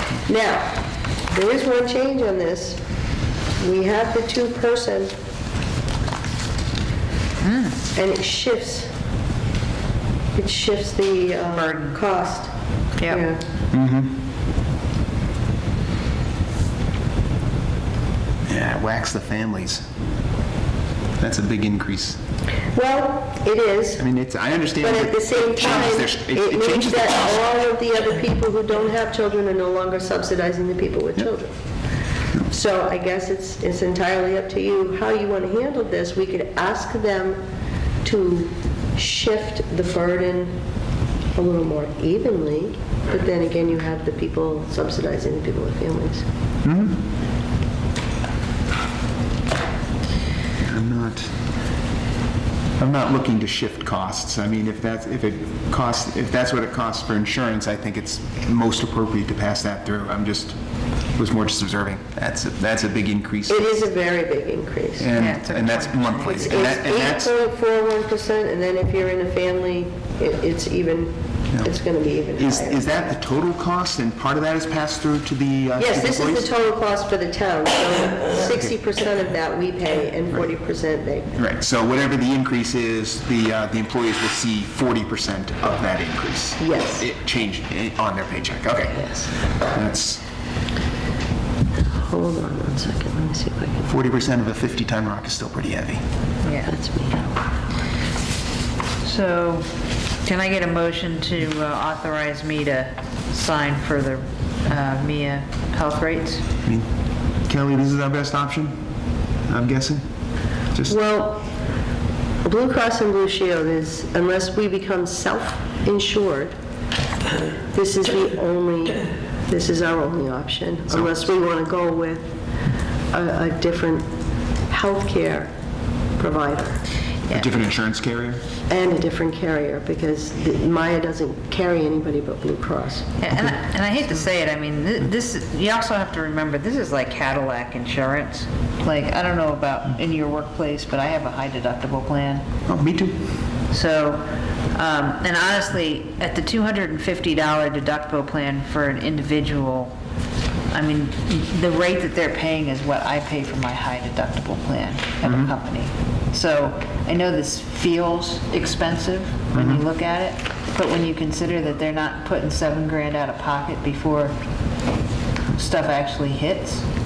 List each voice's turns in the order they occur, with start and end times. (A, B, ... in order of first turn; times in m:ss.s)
0:00.3-0:02.8 A
0:03.6-0:05.1 A
0:07.4-0:07.8 B
0:07.9-0:08.9 A
0:10.4-0:12.5 A
0:11.5-0:12.0 B
0:13.0-0:13.4 A
0:13.7-0:14.2 C
0:18.5-0:19.9 C
0:21.2-0:22.2 C
0:22.7-0:24.0 A
0:24.0-0:27.3 C
0:24.8-0:31.5 A
0:32.5-0:37.4 A
0:38.0-0:40.6 A
0:41.3-0:46.3 A
0:46.6-0:47.0 C
0:50.6-0:51.3 C
0:52.8-1:00.6 C
1:01.2-1:03.7 C
1:03.5-1:05.1 A
1:05.0-1:07.3 C
1:05.1-1:06.5 B
1:06.3-1:12.9 A
1:12.4-1:16.5 C
1:15.8-1:21.4 A
1:21.4-1:30.2 C
1:26.6-1:27.1 A
1:29.0-1:29.2 A
1:31.8-1:33.9 A
1:33.8-1:36.0 C
1:36.4-1:36.7 B
1:36.6-1:37.5 A
1:39.0-1:39.7 B
1:40.2-1:46.4 B
1:47.4-1:48.8 C
1:49.5-1:50.0 C
1:50.7-1:51.0 C
1:50.9-1:51.5 A
1:52.4-1:56.5 A
1:57.7-2:02.3 A
2:03.1-2:04.1 A
2:04.7-2:05.5 A
2:06.2-2:06.8 A
2:07.3-2:08.4 C
2:08.7-2:13.1 A
2:13.2-2:22.4 B
2:22.7-2:23.3 C
2:23.7-2:30.0 B
2:30.7-2:44.4 B
2:35.2-2:35.5 C
2:39.6-2:39.8 C
2:45.5-2:46.9 B